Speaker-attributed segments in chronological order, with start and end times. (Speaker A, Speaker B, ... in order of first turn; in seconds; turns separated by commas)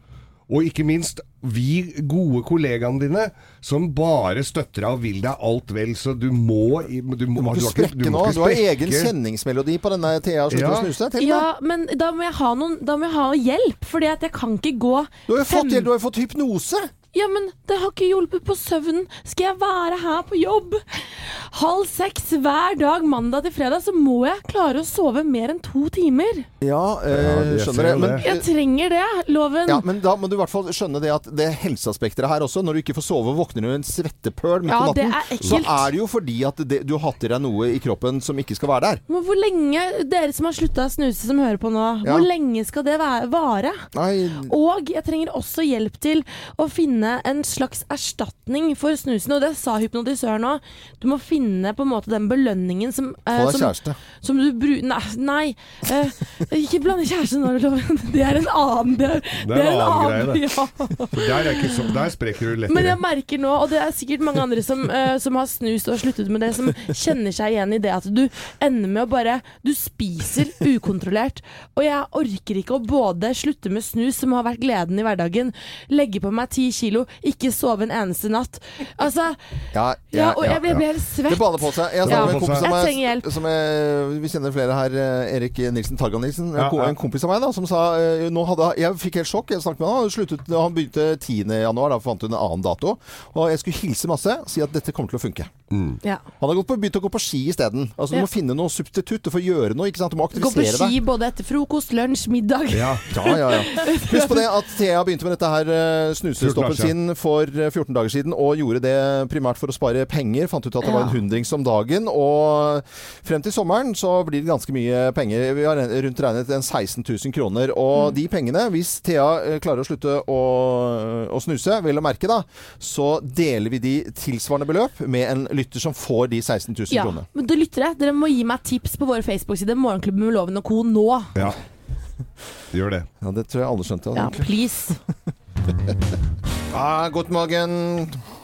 Speaker A: 0.5-9.1, Speaker B: 7.4-11.5, Speaker A: 10.5-10.9, Speaker C: 11.2-15.9, Speaker B: 15.3-16.9, Speaker C: 17.1-26.5, Speaker B: 26.6-28.5, Speaker A: 27.1-28.2, Speaker C: 28.2-29.9, Speaker B: 29.7-39.0, Speaker C: 34.7-35.9, Speaker C: 39.1-43.9, Speaker B: 43.9-44.5, Speaker C: 44.5-61.9, Speaker B: 53.3-54.0, Speaker A: 59.4-60.4, Speaker A: 61.1-63.0, Speaker C: 62.7-79.4, Speaker B: 79.7-95.5, Speaker C: 80.1-83.3, Speaker A: 82.1-82.7, Speaker A: 86.6-87.0, Speaker A: 95.7-96.0, Speaker B: 96.4-101.0, Speaker C: 100.3-104.5, Speaker A: 102.7-103.0, Speaker B: 103.1-127.3, Speaker A: 106.4-106.9, Speaker C: 110.8-111.2, Speaker C: 126.9-131.3, Speaker A: 132.7-133.1, Speaker B: 133.2-134.5, Speaker C: 134.2-135.0, Speaker B: 136.7-138.2